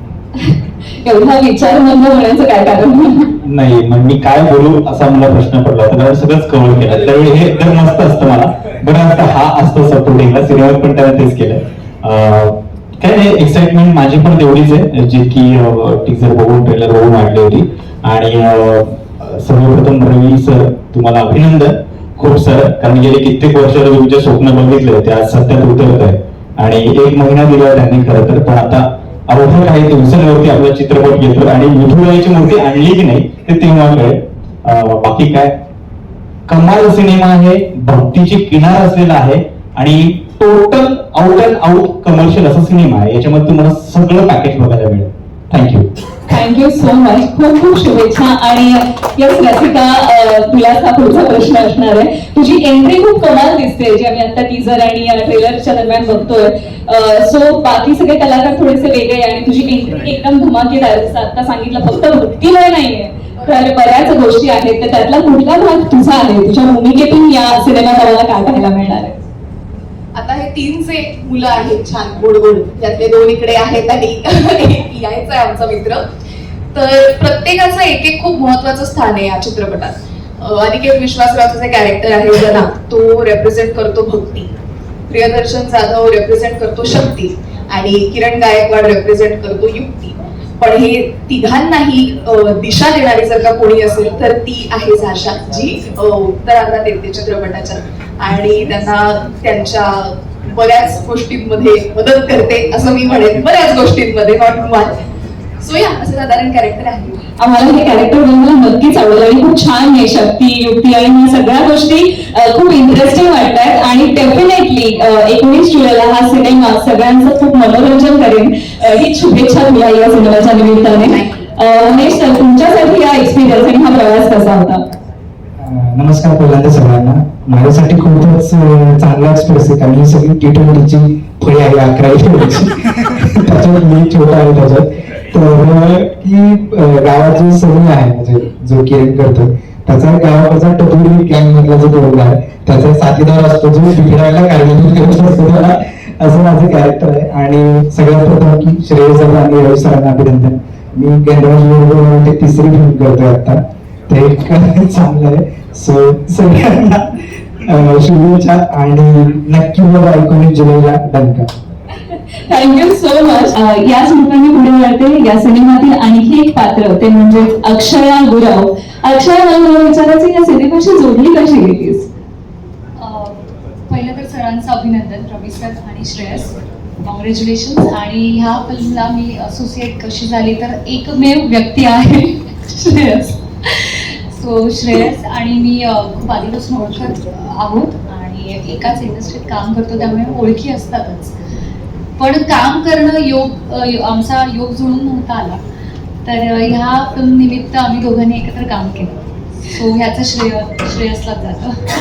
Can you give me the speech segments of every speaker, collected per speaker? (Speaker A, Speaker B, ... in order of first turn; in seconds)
Speaker A: 0.4-3.3, 46.3-69.2, 107.4-124.8, 162.5-172.1
Speaker B: 3.4-35.6, 36.5-45.9
Speaker C: 70.1-76.0, 76.7-84.5, 85.1-105.0, 105.6-107.2
Speaker D: 125.6-161.5
Speaker E: 173.0-173.4, 173.9-176.5, 177.0-191.3, 192.2-195.6, 196.2-199.2, 199.7-201.8